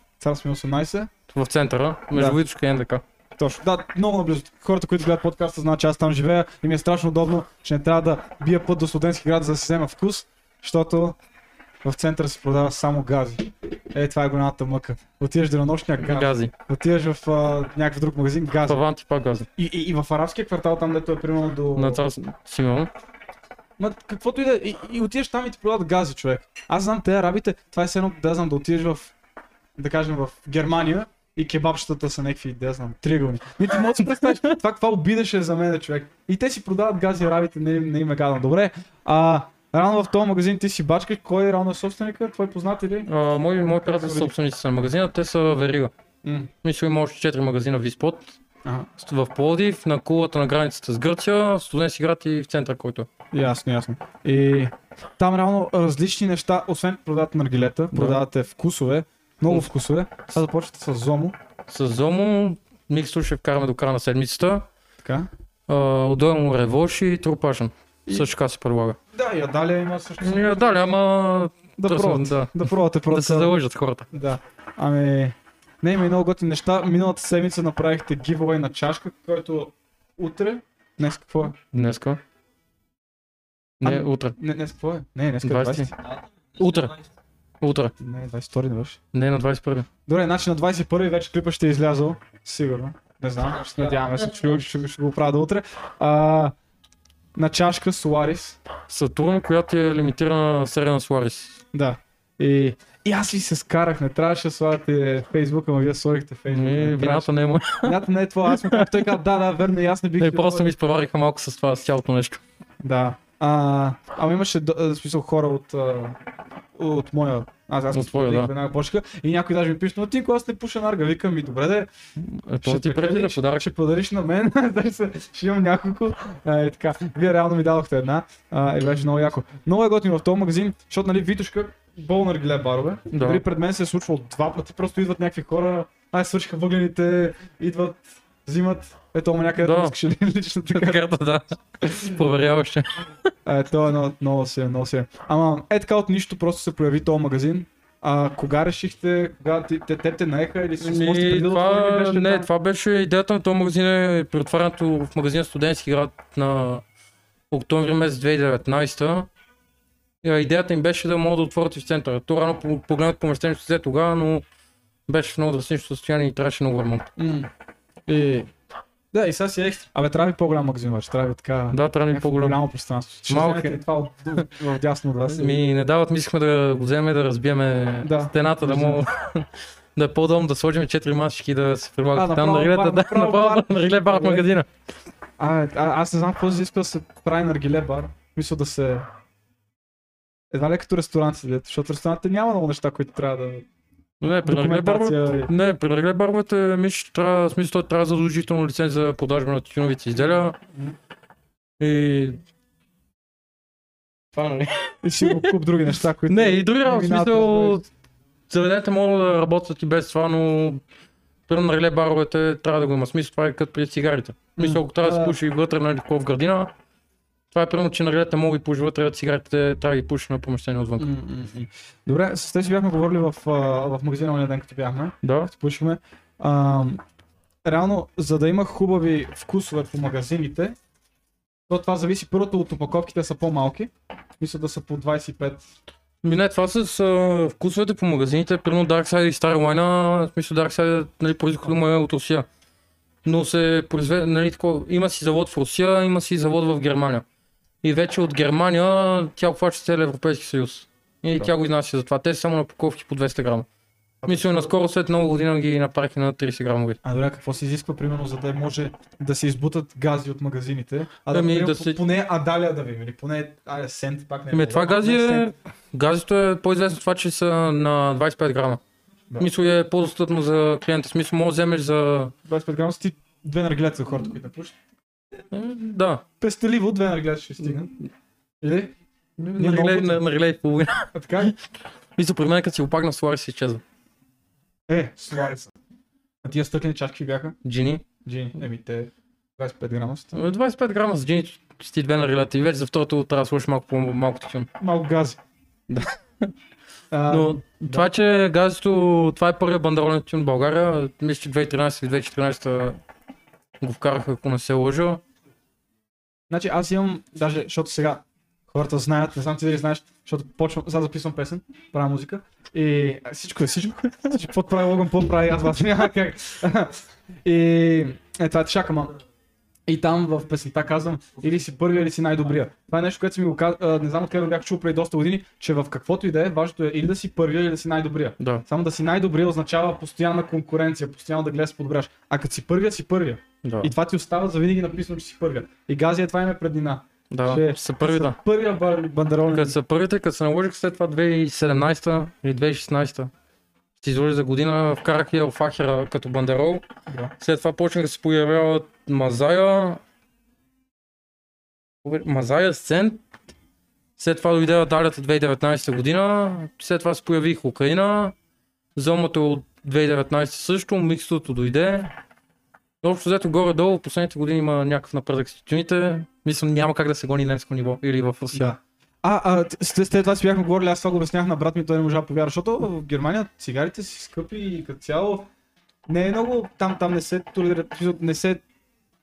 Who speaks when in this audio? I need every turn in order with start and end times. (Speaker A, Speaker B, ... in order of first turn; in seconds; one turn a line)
Speaker A: 0.2-1.1
Speaker B: 1.3-3.0
Speaker A: 2.1-2.4
Speaker A: 3.4-11.2
Speaker A: 11.8-18.8
Speaker B: 16.0-16.5
Speaker B: 18.6-19.5
Speaker A: 19.6-22.0
Speaker B: 21.7-22.9
Speaker A: 23.8-29.1
Speaker A: 29.8-43.1
Speaker B: 33.8-34.5
Speaker B: 43.0-45.9
Speaker A: 43.6-44.3
Speaker A: 46.2-46.5
Speaker B: 46.6-48.4
Speaker B: 49.0-53.1
Speaker A: 53.3-61.4
Speaker B: 57.9-58.2
Speaker B: 61.7-64.7
Speaker A: 65.0-65.3
Speaker B: 65.7-69.0
Speaker A: 69.1-71.0
Speaker B: 70.2-74.1
Speaker A: 71.8-73.5
Speaker A: 74.1-81.6
Speaker B: 81.7-82.2
Speaker B: 83.8-84.3
Speaker A: 83.8-85.9
Speaker B: 85.4-85.9
Speaker B: 86.6-87.0
Speaker B: 87.6-87.9
Speaker A: 88.0-89.0
Speaker B: 89.1-89.9
Speaker A: 90.1-96.5
Speaker A: 97.3-98.6
Speaker B: 98.9-101.6
Speaker A: 101.7-107.3
Speaker B: 106.5-109.2
Speaker A: 107.8-110.7
Speaker B: 110.2-112.4
Speaker A: 112.8-116.2
Speaker A: 116.7-121.9
Speaker B: 117.9-118.5
Speaker B: 122.2-123.7
Speaker A: 122.6-141.0
Speaker B: 133.1-133.4
Speaker B: 139.6-139.9
Speaker B: 140.7-143.1
Speaker A: 143.4-152.5
Speaker B: 150.8-156.8
Speaker B: 157.5-159.3
Speaker B: 160.2-164.4
Speaker B: 165.1-167.1
Speaker A: 167.2-167.5
Speaker A: 168.1-168.5
Speaker A: 169.1-175.6
Speaker B: 171.7-172.6
Speaker B: 173.3-173.8
Speaker B: 175.3-184.7
Speaker A: 178.0-179.0
Speaker A: 182.1-184.4
Speaker A: 185.4-189.1
Speaker A: 190.5-193.6
Speaker B: 194.2-200.6
Speaker A: 194.4-195.5
Speaker B: 201.8-202.4
Speaker B: 204.3-205.6
Speaker A: 205.0-207.8
Speaker B: 206.3-207.9
Speaker B: 208.5-210.8
Speaker B: 211.5-216.7
Speaker A: 214.6-215.4
Speaker B: 217.5-221.1
Speaker A: 221.0-227.0
Speaker B: 225.2-225.5
Speaker A: 227.6-230.8
Speaker A: 231.7-235.6
Speaker B: 236.2-242.4
Speaker B: 243.2-247.2
Speaker B: 247.8-253.7
Speaker A: 254.2-254.7
Speaker B: 254.2-257.0
Speaker A: 257.0-265.4
Speaker B: 261.3-262.0
Speaker B: 264.5-268.8
Speaker B: 269.4-272.3
Speaker A: 272.4-274.7
Speaker B: 275.5-276.2
Speaker A: 276.4-277.9
Speaker A: 278.6-278.9
Speaker B: 279.4-281.5
Speaker A: 279.6-280.2
Speaker A: 281.1-281.5
Speaker B: 282.2-283.8
Speaker A: 284.9-285.7
Speaker A: 286.4-287.6
Speaker B: 287.6-288.0
Speaker A: 288.2-290.4
Speaker B: 290.3-294.7
Speaker A: 294.8-295.4
Speaker B: 295.9-296.5
Speaker A: 297.1-298.1
Speaker B: 297.3-303.0
Speaker B: 303.8-305.2
Speaker A: 306.5-319.1
Speaker A: 319.9-339.8
Speaker B: 328.4-328.6
Speaker B: 333.6-333.9
Speaker B: 337.3-338.4
Speaker B: 339.5-343.3
Speaker B: 344.0-346.8
Speaker A: 347.1-347.3
Speaker B: 347.4-350.0
Speaker B: 352.0-353.2
Speaker B: 354.2-358.3
Speaker B: 358.9-362.1
Speaker B: 363.0-368.7
Speaker A: 368.5-375.5
Speaker A: 376.1-378.6